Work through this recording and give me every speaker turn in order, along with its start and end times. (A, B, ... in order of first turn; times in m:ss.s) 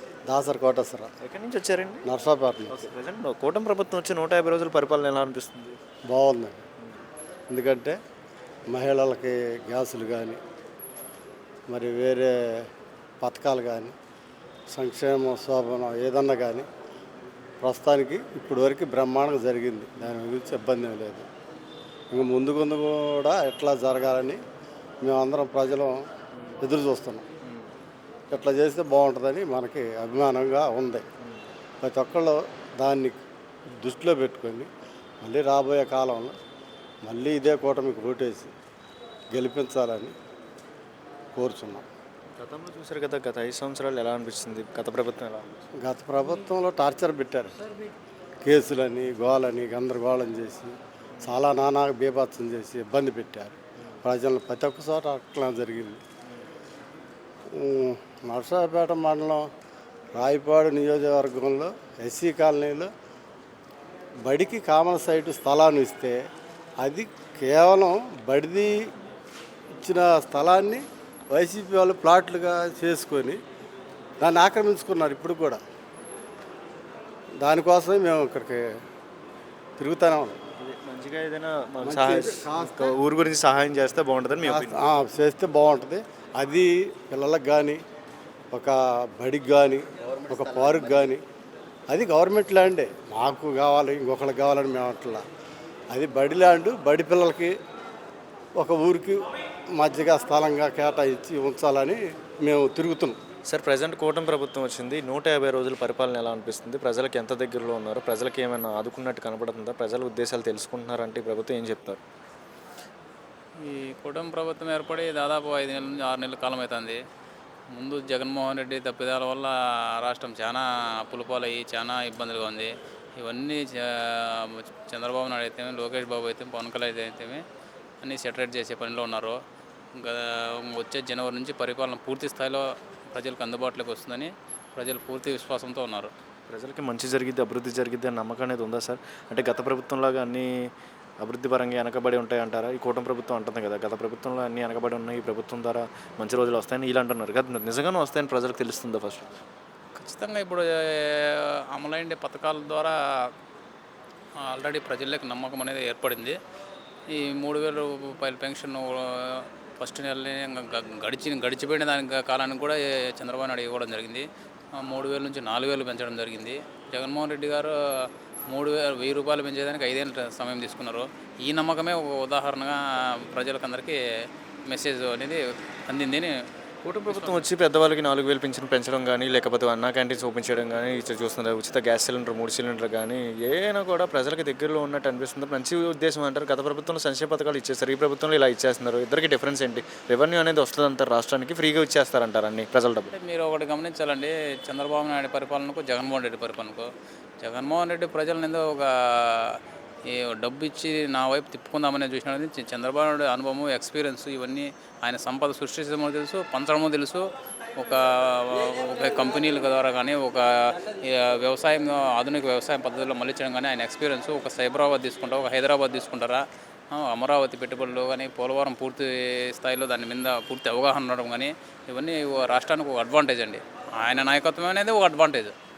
0:00.3-0:01.1 A
0:01.2-0:02.1 B
0:02.0-0:02.8 A
0:02.7-0:05.8 B
0:06.1-0:06.6 A
0:07.5-0:08.0 A
0:08.7-0:10.4 A
0:11.7-0:12.3 A
0:13.2-0:13.9 A
0:14.7-0:16.7 A
0:17.6-0:21.3 A
0:22.1-0:24.4 A
0:25.0-0:26.0 A
0:26.6-0:27.2 A
0:27.4-0:27.7 B
0:28.3-0:31.0 A
0:31.8-0:33.2 A
0:33.8-0:34.7 A
0:35.2-0:36.4 A
0:37.0-0:38.5 A
0:39.3-0:40.1 A
0:41.3-0:41.8 A
0:42.4-0:45.5 B
0:45.8-0:47.5 A
0:48.4-0:56.0 A
0:51.1-0:51.4 B
0:57.6-0:59.4 A
1:00.1-1:02.9 A
1:04.2-1:06.2 A
1:06.8-1:08.9 A
1:09.8-1:13.4 A
1:14.2-1:15.6 A
1:17.4-1:18.6 A
1:19.8-1:20.4 A
1:20.6-1:24.8 B
1:21.8-1:22.9 A
1:24.4-1:27.8 A
1:28.5-1:31.2 A
1:31.9-1:35.2 A
1:35.9-1:37.5 A
1:38.6-1:39.2 A
1:39.8-1:43.2 A
1:43.4-1:52.0 B
1:53.6-1:57.0 C
1:57.7-2:07.4 C
2:08.0-2:09.4 C
2:10.0-2:16.1 C
2:16.5-2:29.4 B
2:30.0-2:33.3 C
2:34.4-2:36.4 C
2:37.1-2:54.0 C
2:54.7-2:56.3 C
2:56.8-3:13.1 B
2:57.1-2:57.5 C
3:13.1-3:16.9 C
3:17.4-3:45.5 C